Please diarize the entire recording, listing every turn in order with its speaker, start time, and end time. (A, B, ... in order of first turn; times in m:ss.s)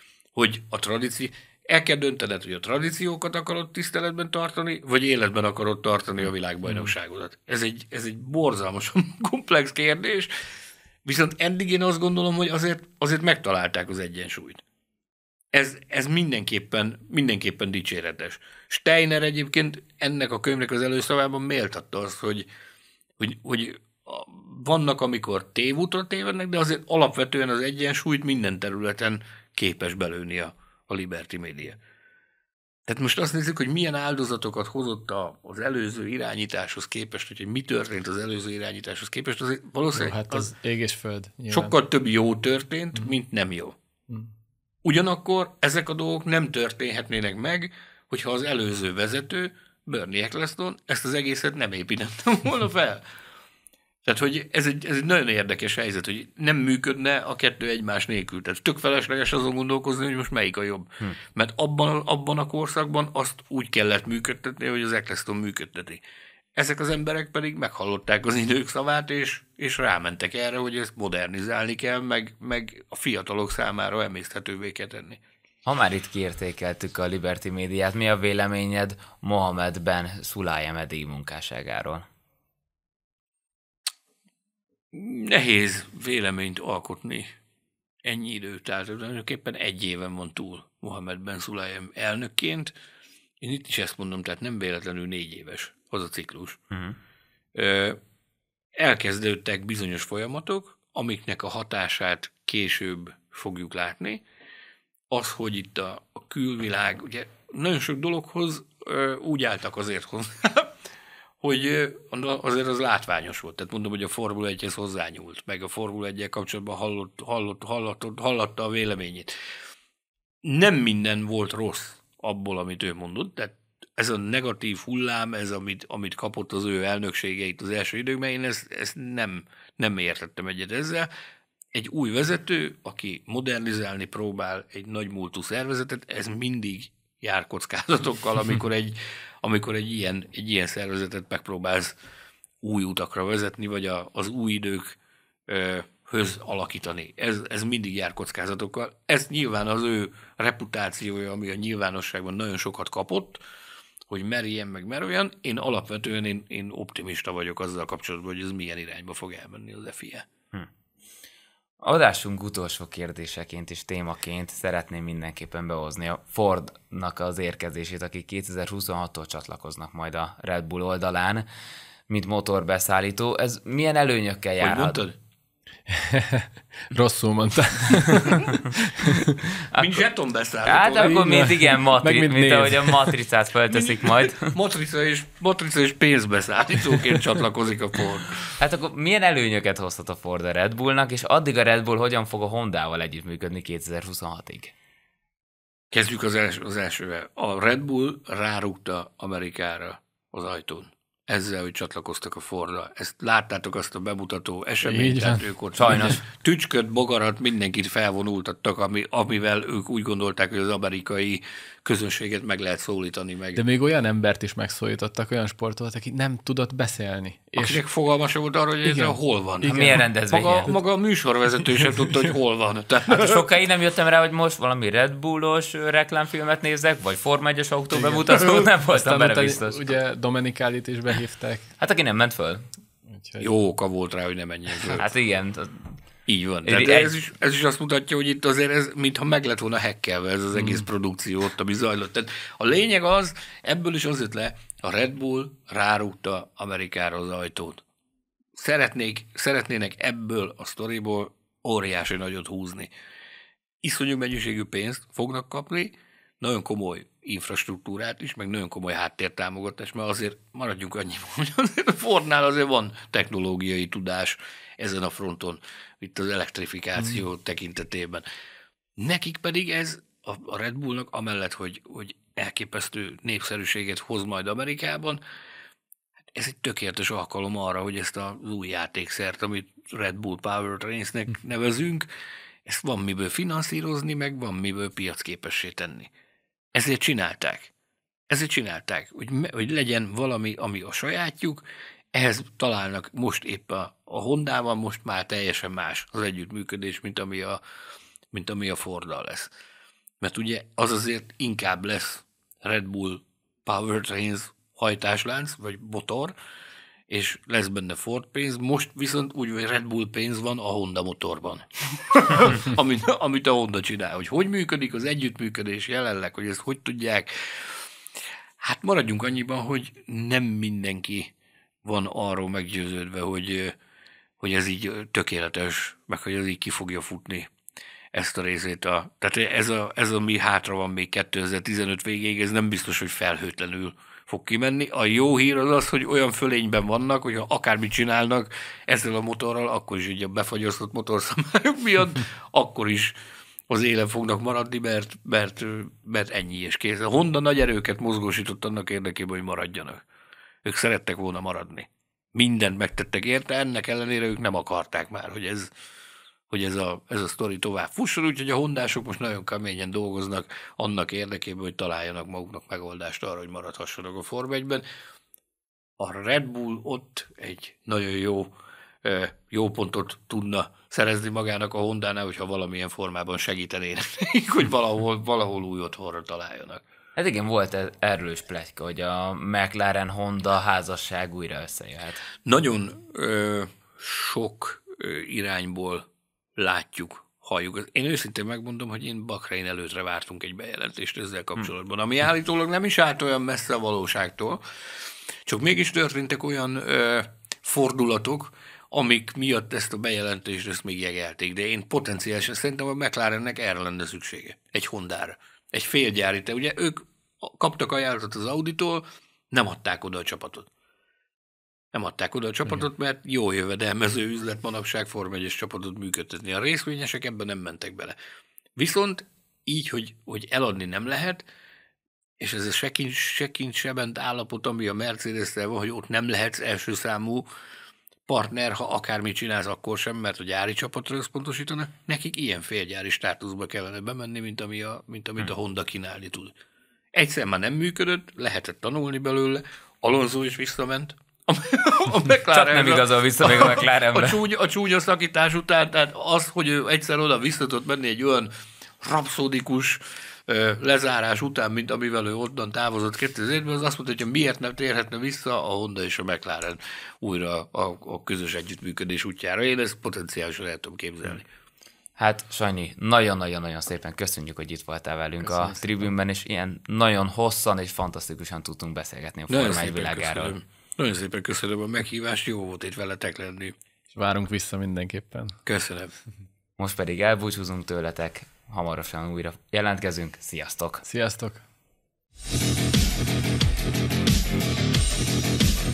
0:00.4-0:10.3 A
0:11.0-0:14.6 A
0:15.5-0:22.5 A
0:23.2-0:31.8 A
0:32.9-0:40.5 A
0:40.0-0:41.7 B
0:41.5-0:43.8 A
0:44.8-0:53.0 A
0:54.0-1:06.0 A
1:06.6-1:15.2 A
1:15.6-1:22.0 C
1:24.9-1:27.3 A
1:28.0-1:32.7 A
1:33.4-1:36.6 A
1:36.7-1:37.0 C
1:37.6-1:38.0 A
1:38.8-1:44.2 A
1:45.1-1:50.7 A
1:51.4-1:59.3 A
2:00.4-2:11.1 A
2:11.7-2:22.0 A
2:22.6-2:33.4 A
2:34.1-2:40.3 A
2:41.8-2:51.5 C
2:52.1-2:55.0 C
2:54.6-2:55.2 A
2:55.9-2:59.5 B
2:59.7-3:00.0 C
2:59.7-3:01.4 A
3:00.6-3:04.5 C
3:01.0-3:03.1 B
3:03.7-3:08.5 A
3:08.6-3:14.7 C
3:15.9-3:33.6 A
3:24.8-3:26.2 B
3:25.8-3:26.2 C
3:33.6-3:37.8 B
3:37.6-3:43.5 A
3:38.8-3:40.8 B
3:39.7-3:40.7 C
3:43.1-3:50.0 C
3:47.9-3:51.7 B
3:51.8-3:52.7 C
3:53.1-3:53.5 B
3:53.4-3:55.1 A
3:54.9-3:56.0 C
3:56.3-4:07.8 A
3:56.6-3:57.1 C
4:08.6-4:12.9 A
4:13.8-4:28.2 A
4:29.0-4:35.2 A
4:36.3-4:42.1 A
4:42.7-4:46.1 A
4:46.7-4:47.7 A
4:48.3-4:57.6 A
4:58.3-4:59.5 A
5:00.2-5:06.3 A
5:07.1-5:17.9 A
5:18.6-5:21.3 A
5:21.8-5:23.8 A
5:24.4-5:27.5 A
5:28.1-5:43.1 A
5:43.7-5:50.0 A
5:50.6-5:55.7 A
5:56.5-6:04.8 A
6:06.0-6:16.8 A
6:17.2-6:22.2 C
6:22.4-6:26.0 A
6:26.6-6:34.6 A
6:35.5-6:50.7 A
6:51.9-6:58.2 A
6:58.8-7:01.4 A
7:02.4-7:07.5 A
7:08.3-7:16.5 A
7:17.1-7:41.5 A
7:22.5-7:24.4 C
7:42.2-7:50.6 C
7:49.5-7:53.8 A
7:54.1-7:55.6 B
7:55.7-7:56.1 A
7:56.8-8:01.0 C
8:01.0-8:01.6 B